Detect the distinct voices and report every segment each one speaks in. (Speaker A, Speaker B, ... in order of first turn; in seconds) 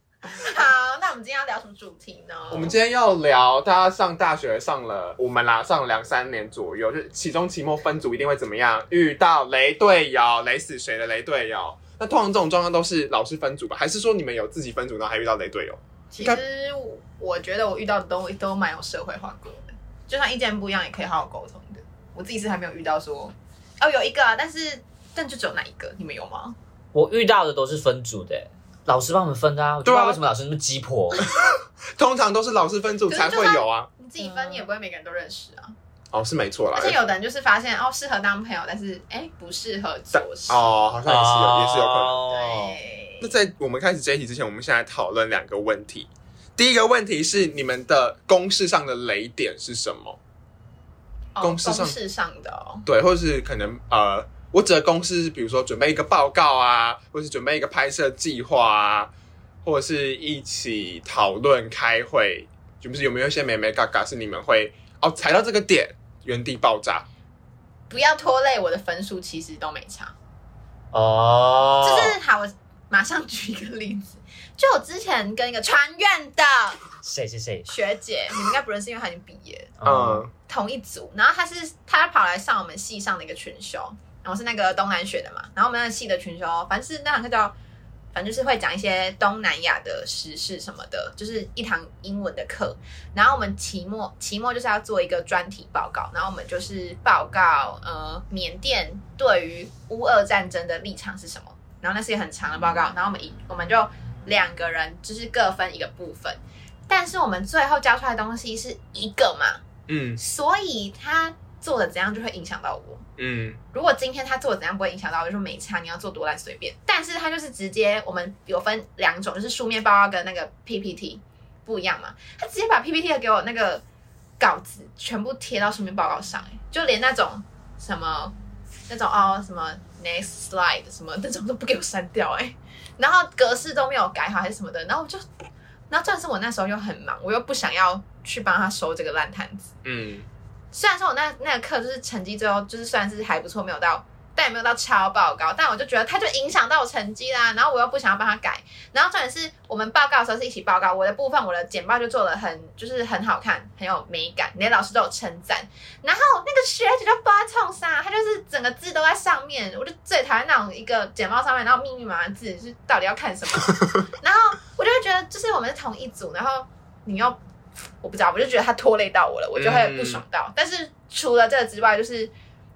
Speaker A: 0.2-2.7, 16.1-26.6, 33.1-35.7, 36.7-40.8, 42.3-43.3, 51.3-52.9, 67.9-70.1, 71.8-76.8, 77.7-79.7, 80.5-87.5, 88.1-109.6, 110.2-113.0, 113.7-123.8, 124.4-128.3, 128.9-135.2, 135.9-139.7, 140.7-167.4, 168.0-172.3
Speaker B: 2.5-16.4, 29.8-30.2, 32.0-33.9, 36.1-37.0, 40.1-42.1, 43.2-50.2, 51.4-52.0, 52.9-59.1, 59.6-67.0, 79.8-80.3, 109.9-110.2, 113.2-113.6, 139.8-140.3, 169.6-170.2
Speaker C: 26.9-31.3, 34.2-34.7, 41.0-42.8, 70.9-72.2, 77.0-77.7, 79.8-80.2